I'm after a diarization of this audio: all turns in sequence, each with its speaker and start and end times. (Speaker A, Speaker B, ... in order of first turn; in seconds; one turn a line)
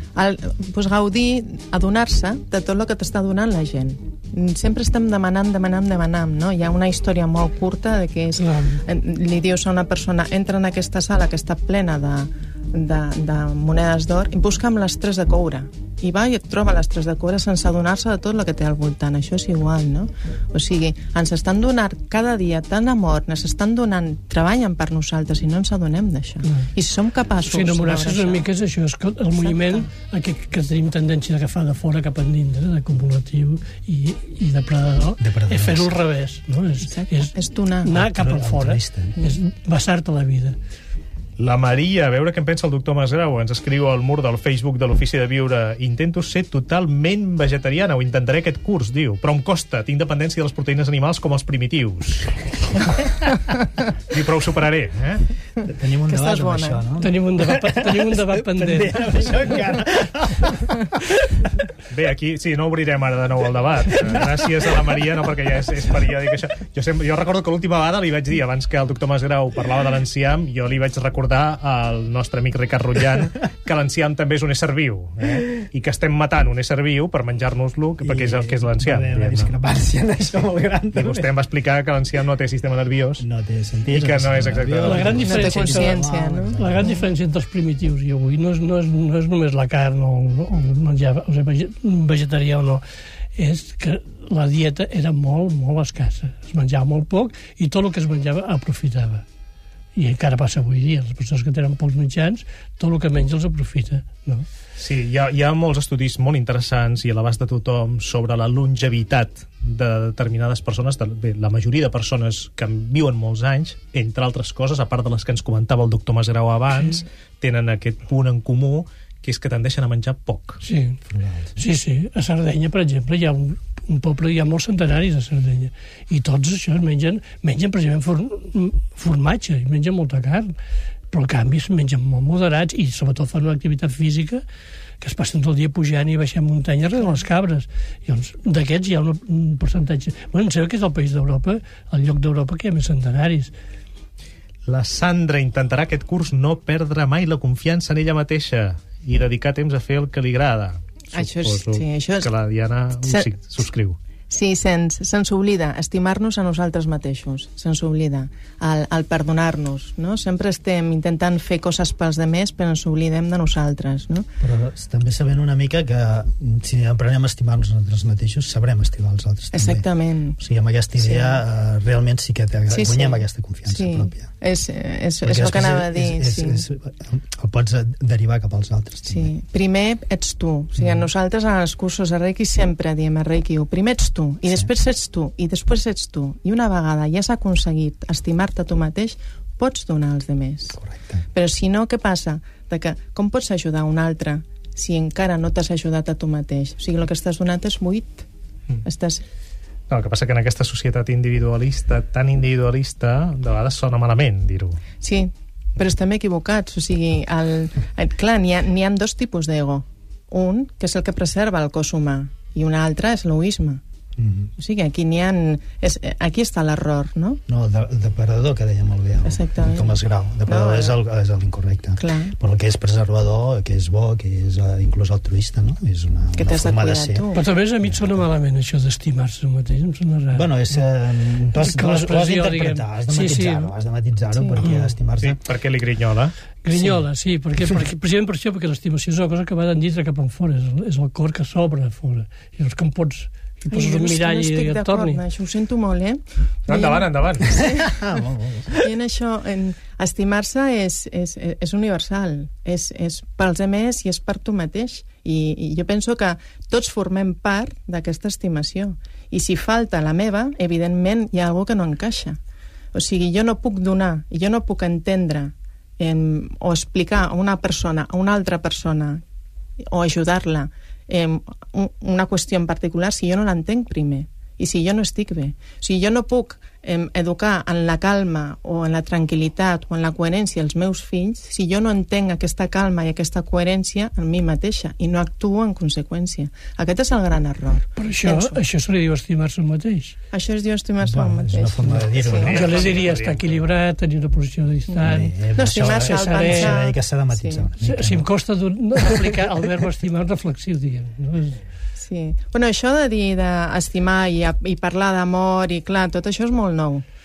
Speaker A: 0.1-28.5
Speaker B: 8.4-8.8
Speaker B: 27.4-40.6
Speaker A: 29.3-29.9
Speaker C: 35.2-35.9
Speaker A: 36.9-38.0
Speaker C: 37.9-39.1
Speaker D: 41.4-52.4
Speaker D: 54.1-55.2
Speaker C: 55.7-60.7
Speaker A: 56.1-56.8
Speaker B: 57.0-59.0
Speaker D: 61.9-79.5
Speaker C: 78.0-81.3
Speaker D: 80.9-83.2
Speaker C: 83.2-86.9
Speaker D: 83.9-85.2
Speaker B: 84.8-92.8
Speaker A: 85.2-87.1
Speaker B: 93.3-99.2
Speaker B: 99.9-104.4
Speaker D: 104.8-120.6
Speaker B: 120.6-121.0
Speaker C: 121.1-121.5
Speaker B: 121.5-130.5
Speaker B: 131.1-134.4
Speaker B: 135.0-143.5
Speaker D: 144.7-154.0
Speaker A: 151.1-152.3
Speaker A: 153.0-153.3
Speaker A: 154.3-164.3
Speaker C: 164.4-169.8
Speaker A: 169.5-170.4
Speaker C: 170.4-174.3
Speaker A: 171.0-171.4
Speaker A: 172.7-176.6
Speaker C: 175.2-179.3
Speaker A: 179.1-190.8
Speaker C: 180.8-181.1
Speaker C: 190.7-191.2
Speaker A: 191.3-198.2
Speaker A: 198.8-199.2
Speaker D: 199.9-204.8
Speaker A: 205.0-213.8
Speaker C: 214.2-214.5
Speaker A: 214.6-217.4
Speaker C: 217.5-227.2
Speaker A: 219.2-219.9
Speaker A: 220.5-220.9
Speaker A: 222.0-222.3
Speaker A: 226.3-227.4
Speaker B: 227.3-230.8
Speaker C: 227.8-228.2
Speaker C: 230.3-235.4
Speaker B: 231.6-233.7
Speaker A: 234.3-234.6
Speaker B: 234.6-234.9
Speaker D: 235.2-236.3
Speaker B: 236.6-245.2
Speaker C: 236.7-237.0
Speaker A: 243.7-248.0
Speaker D: 246.7-247.5
Speaker C: 247.6-248.8
Speaker A: 248.8-262.4
Speaker A: 262.9-269.2
Speaker A: 269.9-288.6
Speaker B: 287.9-290.2
Speaker A: 290.3-292.5
Speaker C: 291.0-292.6
Speaker D: 292.4-293.7
Speaker B: 292.5-296.8
Speaker A: 294.9-297.7
Speaker C: 295.0-298.3
Speaker B: 297.8-301.6
Speaker A: 301.9-307.0